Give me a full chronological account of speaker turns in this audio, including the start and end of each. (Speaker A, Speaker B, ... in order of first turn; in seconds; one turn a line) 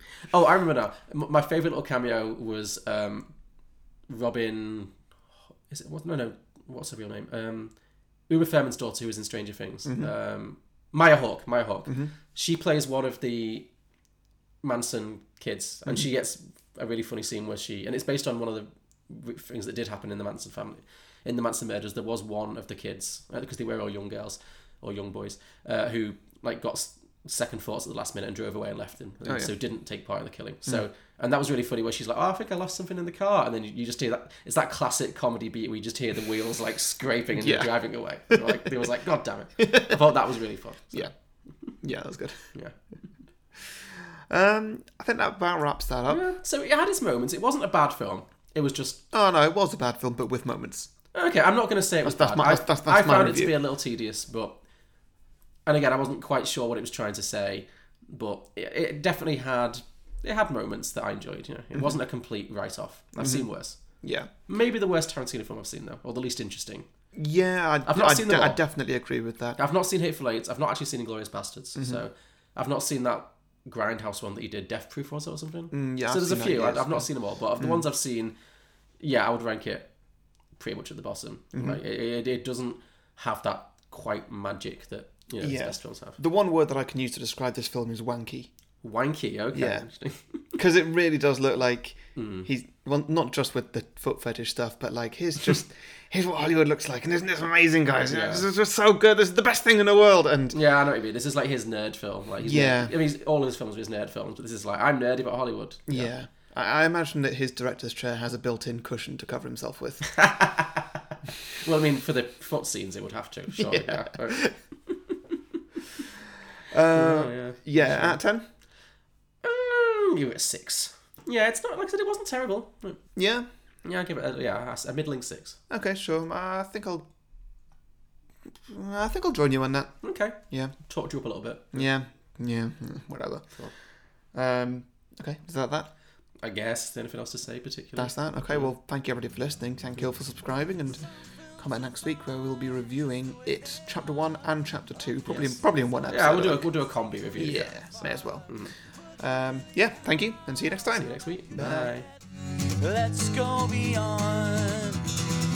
Speaker A: 0.3-3.4
Speaker A: 4.1-5.0
Speaker A: 5.7-7.8
Speaker A: 8.3-13.7
Speaker B: 9.9-10.1
Speaker B: 11.9-12.1
Speaker A: 14.6-41.1
Speaker B: 29.3-29.5
Speaker B: 37.4-37.7
Speaker B: 39.6-40.0
Speaker B: 41.8-42.5
Speaker B: 44.3-46.2
Speaker A: 46.1-49.0
Speaker B: 49.1-50.9
Speaker A: 51.1-54.6
Speaker B: 52.0-53.5
Speaker A: 55.7-66.9
Speaker B: 63.2-64.3
Speaker B: 67.1-69.6
Speaker A: 67.9-68.6
Speaker A: 69.6-78.3
Speaker B: 71.8-72.0
Speaker B: 75.7-77.8
Speaker A: 79.0-79.9
Speaker A: 80.6-86.2
Speaker B: 81.5-81.8
Speaker B: 85.4-88.5
Speaker A: 88.8-90.6
Speaker B: 89.5-89.9
Speaker B: 90.6-100.6
Speaker A: 92.2-92.5
Speaker A: 97.9-98.5
Speaker A: 100.5-106.1
Speaker B: 102.4-102.9
Speaker B: 105.9-110.2
Speaker A: 110.1-115.4
Speaker B: 113.6-114.5
Speaker B: 116.7-118.5
Speaker A: 116.9-118.2
Speaker A: 119.4-123.0
Speaker B: 123.2-123.5
Speaker A: 123.8-125.6
Speaker B: 125.7-127.1
Speaker B: 128.7-130.7
Speaker A: 130.0-131.9
Speaker B: 131.7-133.5
Speaker B: 134.3-135.9
Speaker A: 136.4-138.7
Speaker B: 138.0-141.1
Speaker B: 141.6-146.7
Speaker A: 145.3-147.8
Speaker B: 147.4-148.5
Speaker A: 148.5-148.7
Speaker B: 149.2-151.9
Speaker A: 151.0-152.1
Speaker C: 152.6-155.1